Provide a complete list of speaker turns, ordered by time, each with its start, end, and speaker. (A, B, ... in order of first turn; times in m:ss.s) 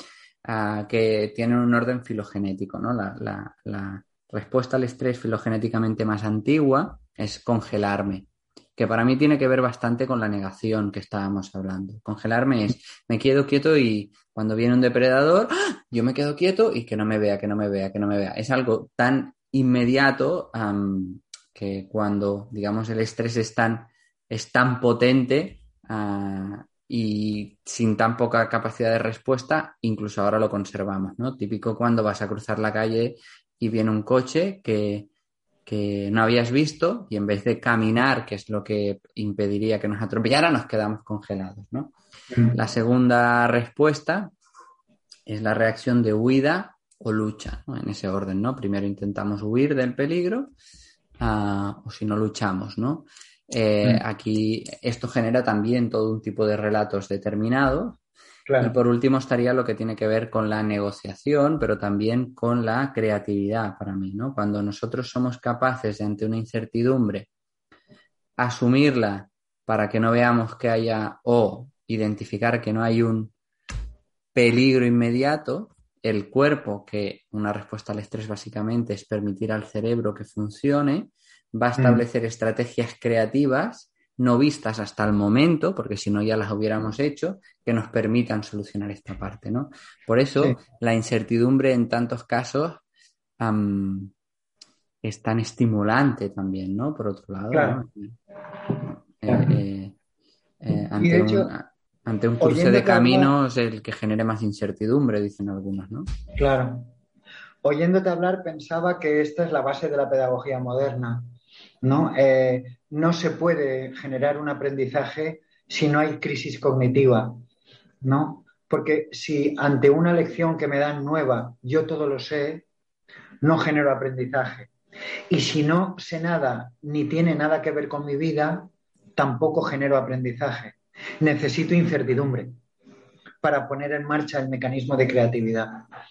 0:00.4-0:35.1 A
0:35.6-0:41.9 A
0:42.5-0:44.3 A
0:45.3-0:50.5 A
0:51.2-0:58.0 A
0:58.4-0:58.8 B
0:58.6-1:07.3 A
1:08.4-1:13.3 A
1:14.3-1:32.8 A
1:21.8-1:22.0 B
1:33.4-1:34.1 A
1:35.0-1:38.2 A
1:37.5-1:37.8 B
1:38.8-1:40.0 A
1:39.3-1:39.6 B
1:40.6-1:46.1 A
1:41.0-1:41.5 B
1:42.4-1:43.3 B
1:46.4-1:46.9 B
1:47.6-1:51.3 B
1:51.8-1:57.4 B
1:58.0-2:02.6 B
2:03.4-2:04.7 B
2:05.3-2:12.5 B
2:13.4-2:15.8 B